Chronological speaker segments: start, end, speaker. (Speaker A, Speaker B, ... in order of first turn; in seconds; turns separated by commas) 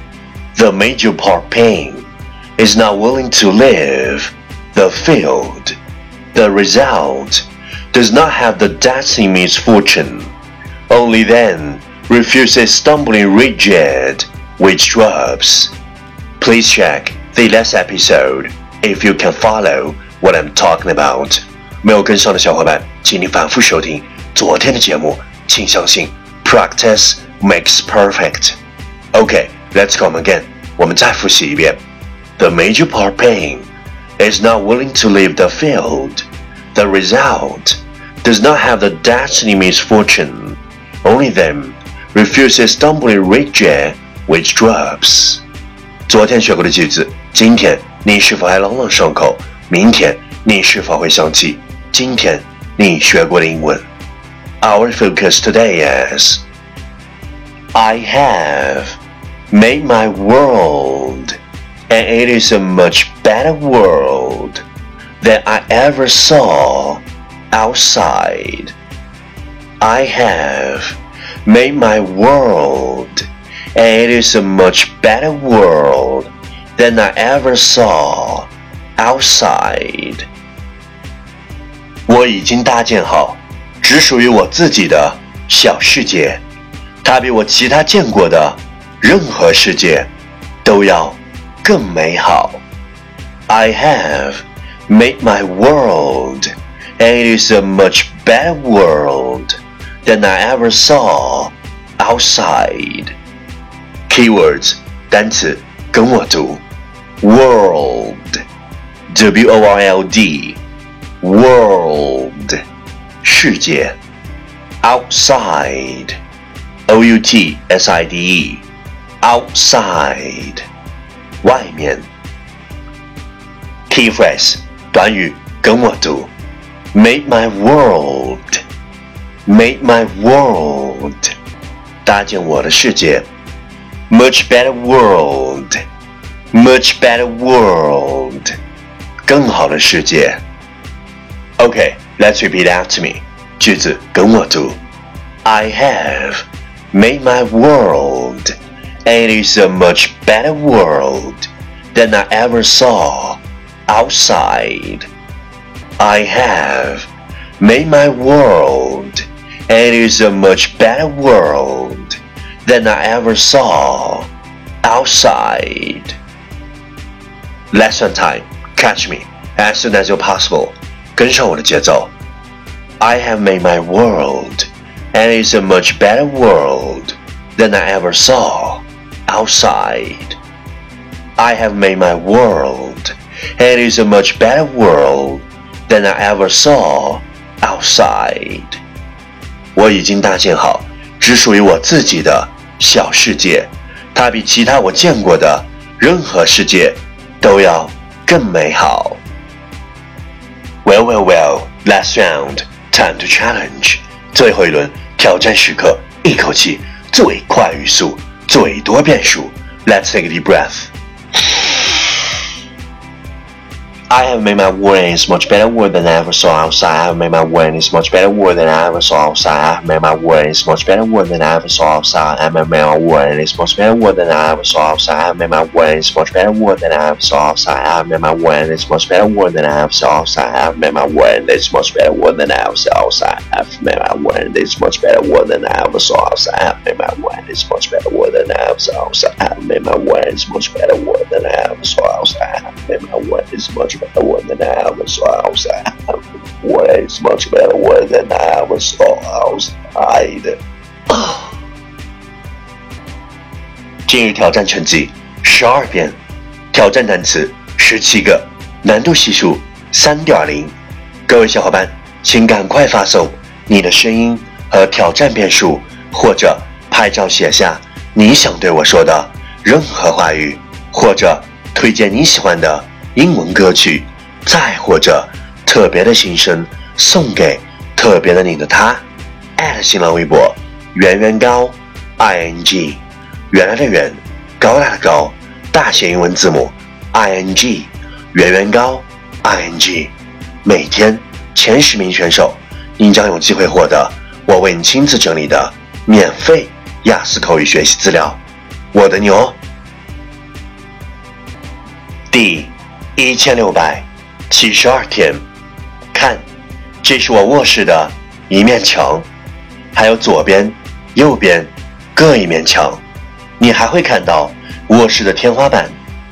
Speaker A: 0.6-5.8, Speaker A: 6.3-10.3, Speaker A: 10.9-15.7, Speaker A: 16.4-28.6, Speaker A: 29.1-31.8, Speaker A: 32.4-45.4, Speaker A: 46.1-53.9, Speaker A: 54.6-56.5, Speaker A: 57.7-59.0, Speaker A: 59.5-61.4, Speaker A: 61.9-64.6, Speaker A: 65.2-68.8, Speaker A: 69.8-80.3, Speaker A: 82.1-86.4, Speaker A: 87.0-90.1, Speaker A: 90.6-92.6, Speaker A: 93.5-103.2, Speaker A: 104.1-106.6, Speaker A: 107.2-108.4, Speaker A: 109.1-110.6, Speaker A: 111.2-112.6, Speaker A: 113.2-114.0, Speaker A: 114.8-116.2, Speaker A: 116.9-118.7, Speaker A: 119.2-120.7, Speaker A: 121.4-122.1, Speaker A: 123.9-126.3, Speaker A: 126.9-128.6, Speaker A: 129.5-131.3, Speaker A: 132.1-133.3, Speaker A: 134.1-135.8, Speaker A: 136.5-138.6, Speaker A: 139.3-140.4, Speaker A: 141.6-144.8, Speaker A: 145.4-148.6, Speaker A: 149.1-155.1, Speaker A: 156.0-164.3, Speaker A: 164.8-166.2, Speaker A: 167.7-172.1, Speaker A: 173.0-180.4, Speaker A: 181.4-188.8, Speaker A: 189.8-199.2, Speaker A: 200.8-210.9, Speaker A: 211.4-211.9, Speaker A: 214.1-251.5, Speaker A: 254.1-256.2, Speaker A: 256.7-260.8, Speaker A: 261.3-279.1, Speaker A: 279.6-298.4, Speaker A: 298.9-299.6, Speaker A: 302.3-305.5, Speaker A: 306.1-306.5, Speaker A: 307.0-309.3, Speaker A: 309.9-313.0, Speaker A: 313.6-316.0